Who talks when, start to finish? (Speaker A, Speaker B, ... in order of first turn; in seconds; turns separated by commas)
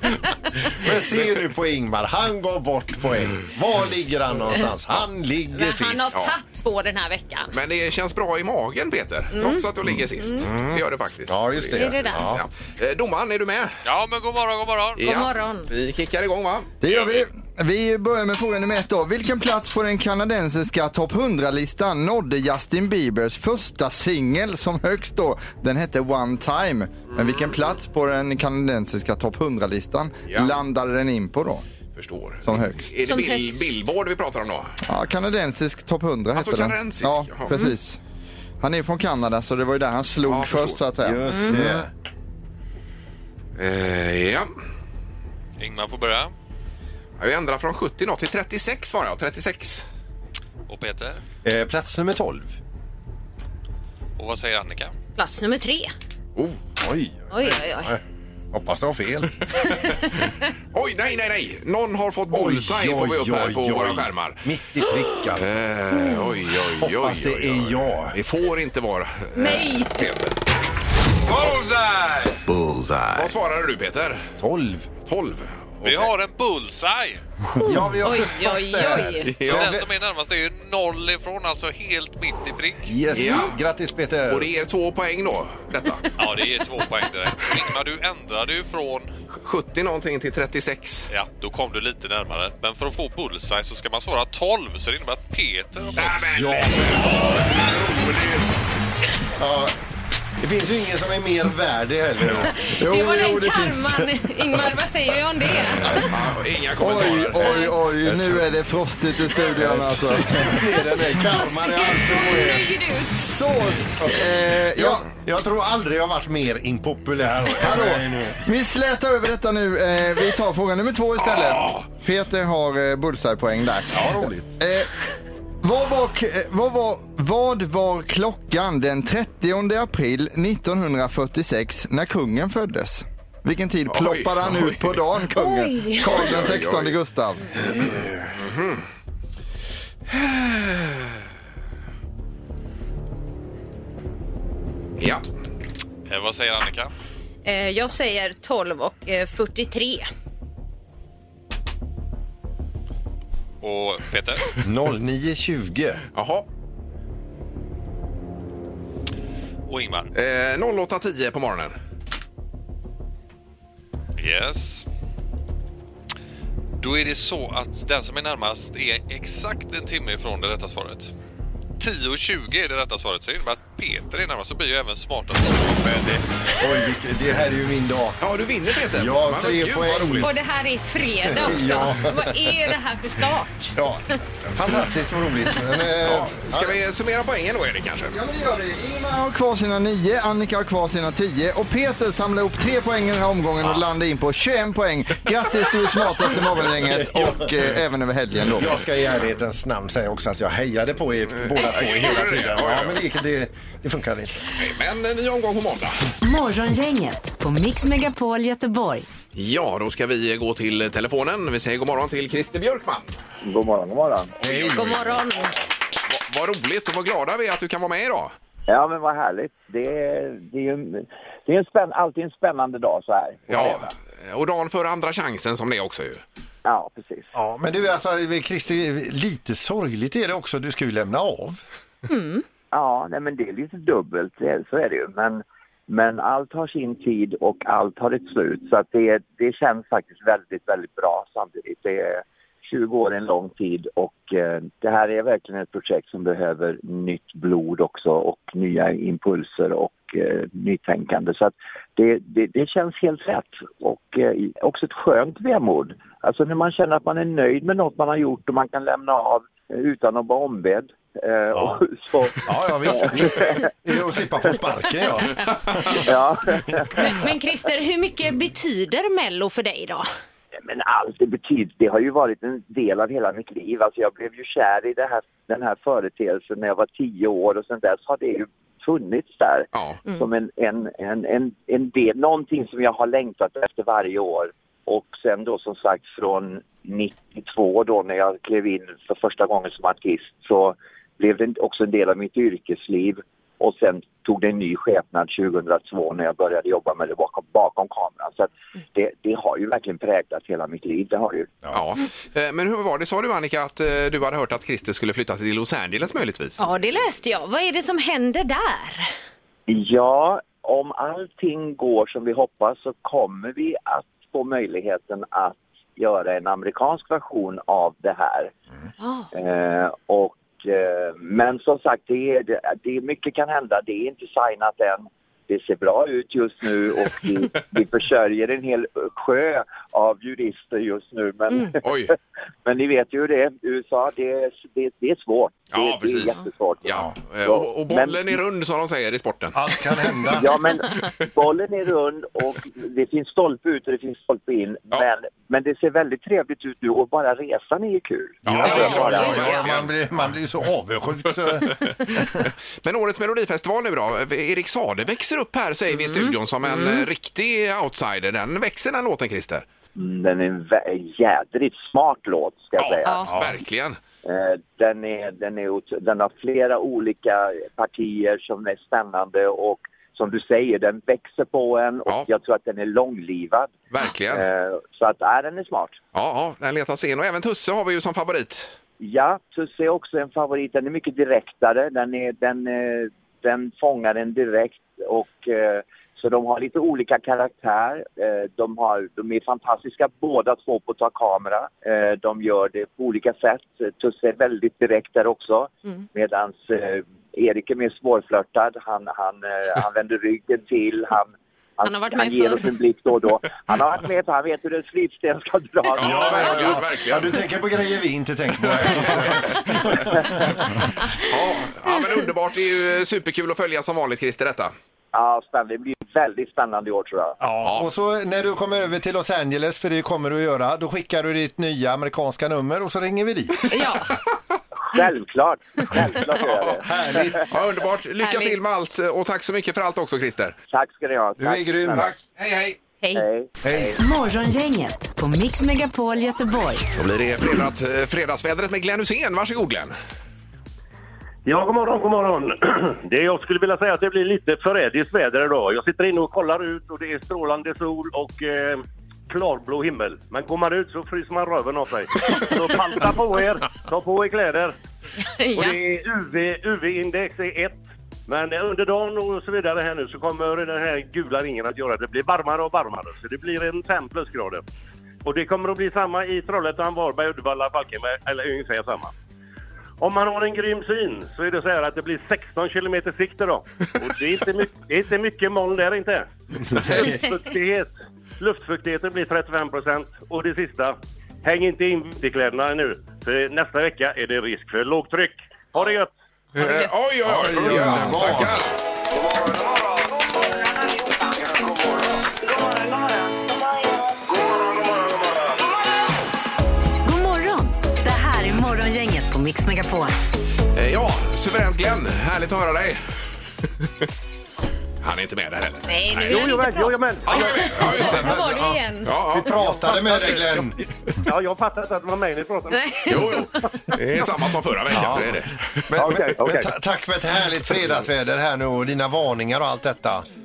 Speaker A: 0.8-6.1, Speaker B: 5.5-7.5, Speaker C: 7.5-13.8, Speaker B: 9.3-9.6, Speaker A: 9.8-12.4, Speaker B: 10.2-10.5, Speaker B: 11.7-12.2, Speaker D: 13.8-15.1, Speaker C: 15.0-17.2, Speaker B: 15.0-15.7, Speaker E: 16.8-31.6, Speaker C: 30.3-30.6, Speaker C: 31.9-34.8, Speaker E: 32.4-32.9, Speaker B: 33.0-33.7, Speaker E: 34.9-38.0, Speaker C: 36.3-37.5, Speaker E: 38.6-41.9, Speaker C: 40.2-40.8, Speaker A: 41.0-41.9, Speaker B: 41.3-41.6, Speaker C: 43.6-44.5, Speaker D: 45.6-46.3, Speaker C: 47.2-49.8, Speaker D: 50.7-51.2, Speaker A: 51.4-52.6, Speaker D: 54.2-54.9, Speaker B: 55.2-55.9, Speaker A: 56.8-58.0, Speaker B: 57.3-57.9, Speaker A: 58.5-59.3, Speaker B: 59.6-60.1, Speaker C: 60.7-64.4, Speaker A: 62.3-65.5, Speaker C: 65.3-70.4, Speaker A: 66.2-68.2, Speaker B: 69.3-70.0, Speaker A: 72.5-73.3, Speaker C: 73.1-74.3, Speaker A: 74.4-74.9, Speaker C: 75.0-76.1, Speaker D: 75.8-77.2, Speaker A: 77.6-79.9, Speaker B: 78.0-79.3, Speaker C: 79.2-79.7, Speaker D: 79.5-82.9, Speaker A: 82.8-84.5, Speaker C: 83.1-83.5, Speaker C: 84.3-86.1, Speaker D: 86.2-89.1, Speaker C: 89.3-91.1, Speaker D: 91.1-96.5, Speaker C: 96.0-97.4, Speaker A: 99.4-99.7, Speaker A: 100.4-102.5, Speaker B: 102.5-106.1, Speaker E: 102.7-104.0, Speaker C: 105.8-107.5, Speaker E: 106.8-110.6, Speaker B: 107.4-107.7, Speaker A: 108.0-108.5, Speaker A: 109.5-112.7, Speaker B: 111.1-113.2, Speaker E: 113.1-115.0, Speaker A: 114.8-118.4, Speaker E: 117.6-124.9, Speaker C: 121.3-121.8, Speaker A: 123.9-124.5, Speaker E: 125.6-137.6, Speaker C: 133.9-135.0, Speaker B: 135.3-136.3, Speaker C: 136.0-137.0, Speaker C: 137.6-138.8, Speaker C: 140.1-141.1, Speaker C: 145.0-145.2, Speaker D: 146.1-146.9, Speaker B: 147.4-150.1, Speaker D: 153.6-154.6, Speaker A: 154.6-156.0, Speaker C: 156.1-156.4, Speaker D: 159.7-160.1, Speaker C: 160.1-161.7, Speaker D: 164.2-164.8, Speaker D: 166.8-171.1, Speaker D: 171.8-176.0, Speaker A: 176.6-178.2, Speaker C: 178.2-180.3, Speaker A: 178.9-180.3, Speaker B: 180.2-183.8, Speaker A: 181.2-182.5, Speaker A: 183.8-186.8, Speaker C: 186.0-188.2, Speaker E: 188.1-198.7, Speaker A: 196.7-197.8, Speaker A: 198.5-204.5, Speaker C: 201.4-203.0, Speaker C: 204.6-206.0, Speaker F: 206.2-209.1, Speaker C: 209.3-213.1, Speaker G: 213.4-214.3, Speaker C: 214.4-218.3, Speaker B: 214.4-215.5, Speaker G: 218.7-223.9, Speaker C: 223.5-226.2, Speaker G: 226.6-227.3, Speaker A: 227.3-231.6, Speaker B: 232.1-232.4, Speaker G: 232.7-263.6, Speaker A: 261.5-261.8, Speaker A: 262.4-266.1, Speaker G: 265.9-266.9, Speaker B: 267.0-270.1, Speaker G: 270.6-301.5, Speaker C: 279.7-280.0, Speaker C: 301.7-306.6, Speaker B: 306.6-309.1, Speaker G: 309.7-318.5, Speaker B: 319.0-319.3, Speaker G: 319.3-332.1, Speaker C: 331.8-332.1, Speaker G: 332.6-338.4, Speaker C: 335.7-339.6, Speaker A: 339.5-340.6, Speaker G: 340.3-349.6, Speaker A: 348.4-352.5, Speaker C: 348.4-349.9, Speaker B: 348.6-349.6, Speaker C: 352.8-359.6, Speaker B: 355.9-357.1, Speaker G: 359.9-363.3, Speaker C: 362.8-364.0, Speaker A: 363.3-363.6, Speaker G: 364.2-373.8, Speaker C: 373.9-374.5, Speaker G: 374.3-376.0, Speaker C: 376.1-378.7, Speaker G: 379.0-406.8, Speaker B: 401.8-402.7, Speaker C: 405.9-407.4, Speaker A: 406.0-410.6, Speaker C: 408.8-409.8, Speaker C: 411.1-414.7, Speaker G: 415.1-417.4, Speaker A: 417.4-423.8, Speaker B: 423.7-424.1, Speaker G: 424.8-427.4, Speaker A: 426.8-427.5, Speaker C: 427.5-430.5, Speaker B: 428.2-428.6, Speaker G: 430.7-432.1, Speaker A: 431.4-432.1, Speaker C: 431.9-432.8, Speaker G: 433.1-434.0, Speaker A: 433.6-433.9, Speaker F: 434.0-436.8, Speaker C: 436.9-439.9, Speaker H: 441.4-454.7, Speaker B: 455.2-455.8, Speaker H: 455.5-464.6, Speaker H: 465.2-469.1, Speaker H: 470.0-486.1, Speaker C: 486.5-488.8, Speaker B: 486.6-486.9, Speaker A: 487.2-488.7, Speaker F: 497.0-500.1, Speaker C: 500.7-503.0, Speaker C: 505.0-506.5, Speaker B: 505.9-509.1, Speaker H: 506.3-507.9, Speaker C: 507.2-508.4, Speaker A: 507.9-510.8, Speaker C: 509.0-509.9, Speaker H: 510.0-513.3, Speaker B: 512.7-513.4, Speaker C: 513.1-516.0, Speaker A: 514.9-520.2, Speaker H: 516.0-516.7